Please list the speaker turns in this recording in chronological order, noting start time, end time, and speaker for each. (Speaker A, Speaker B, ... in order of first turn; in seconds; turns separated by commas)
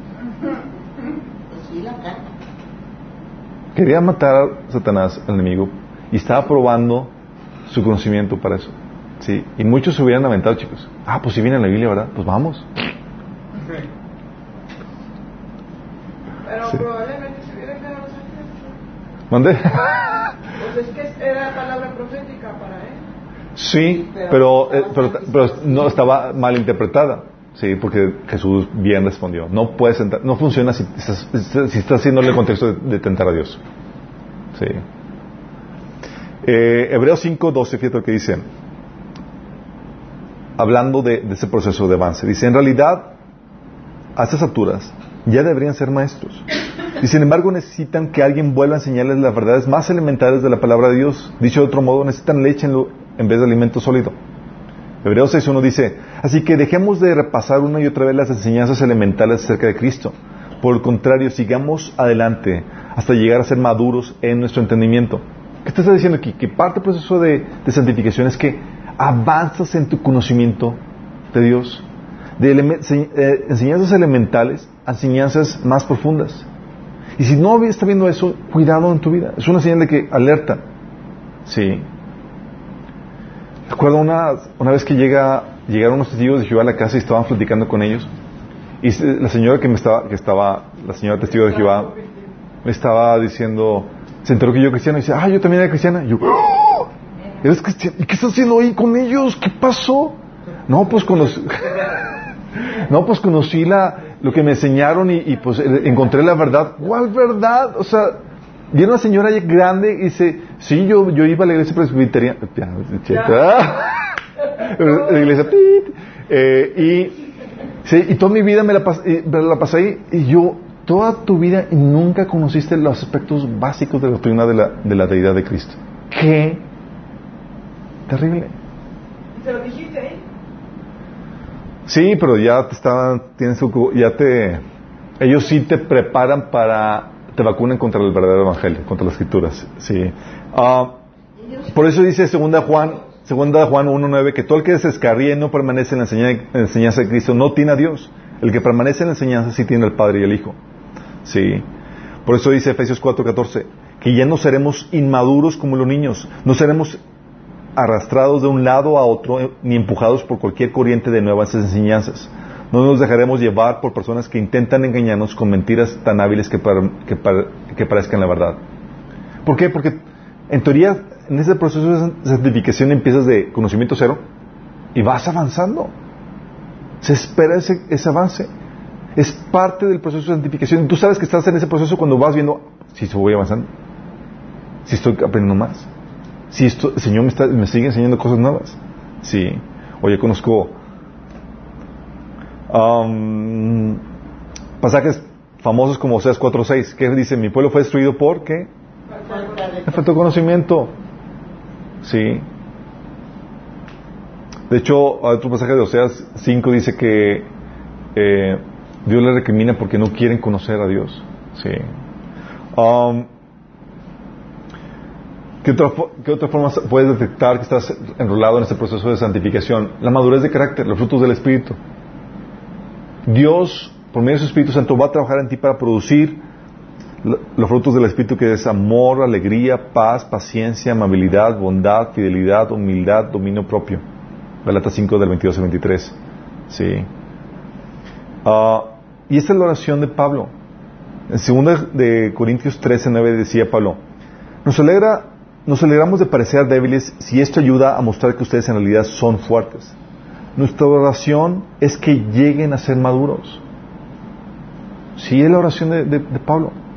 Speaker A: 1.5-2.2, Speaker B: 3.7-7.1, Speaker B: 7.7-12.7, Speaker C: 16.4-18.7, Speaker B: 19.3-20.3, Speaker C: 20.6-23.0, Speaker B: 23.6-33.6, Speaker A: 23.8-26.1, Speaker B: 34.5-34.8, Speaker B: 36.4-38.4, Speaker B: 40.6-43.1, Speaker B: 44.1-46.5, Speaker B: 47.0-54.1, Speaker B: 55.0-70.8, Speaker B: 71.3-71.8, Speaker B: 72.4-76.5, Speaker B: 77.2-80.6, Speaker B: 81.5-81.8, Speaker B: 83.7-88.1, Speaker B: 88.8-92.0, Speaker B: 92.6-96.9, Speaker B: 97.4-100.2, Speaker B: 100.7-102.0, Speaker B: 102.6-108.2, Speaker B: 108.7-114.0, Speaker B: 114.5-117.1, Speaker B: 117.8-126.6, Speaker B: 128.1-128.5, Speaker C: 129.3-130.2, Speaker B: 131.8-134.6, Speaker B: 135.2-140.9, Speaker B: 141.7-150.6, Speaker B: 151.2-151.7, Speaker B: 152.2-157.0, Speaker B: 157.8-168.6, Speaker B: 169.4-174.2, Speaker B: 174.9-175.9, Speaker B: 177.0-178.5, Speaker B: 179.2-183.7, Speaker B: 184.8-185.9, Speaker B: 186.5-190.8, Speaker B: 192.7-194.0, Speaker B: 194.8-198.7, Speaker A: 199.2-200.1, Speaker B: 199.8-200.9, Speaker B: 202.0-202.4, Speaker B: 204.7-207.5, Speaker B: 208.1-211.9, Speaker B: 212.7-213.3, Speaker B: 215.6-221.8, Speaker B: 223.2-226.4, Speaker B: 227.2-234.0, Speaker B: 234.6-236.2, Speaker B: 236.7-237.1, Speaker B: 238.4-240.5, Speaker B: 241.3-244.0, Speaker B: 244.6-249.9, Speaker B: 250.6-253.6, Speaker B: 255.2-256.8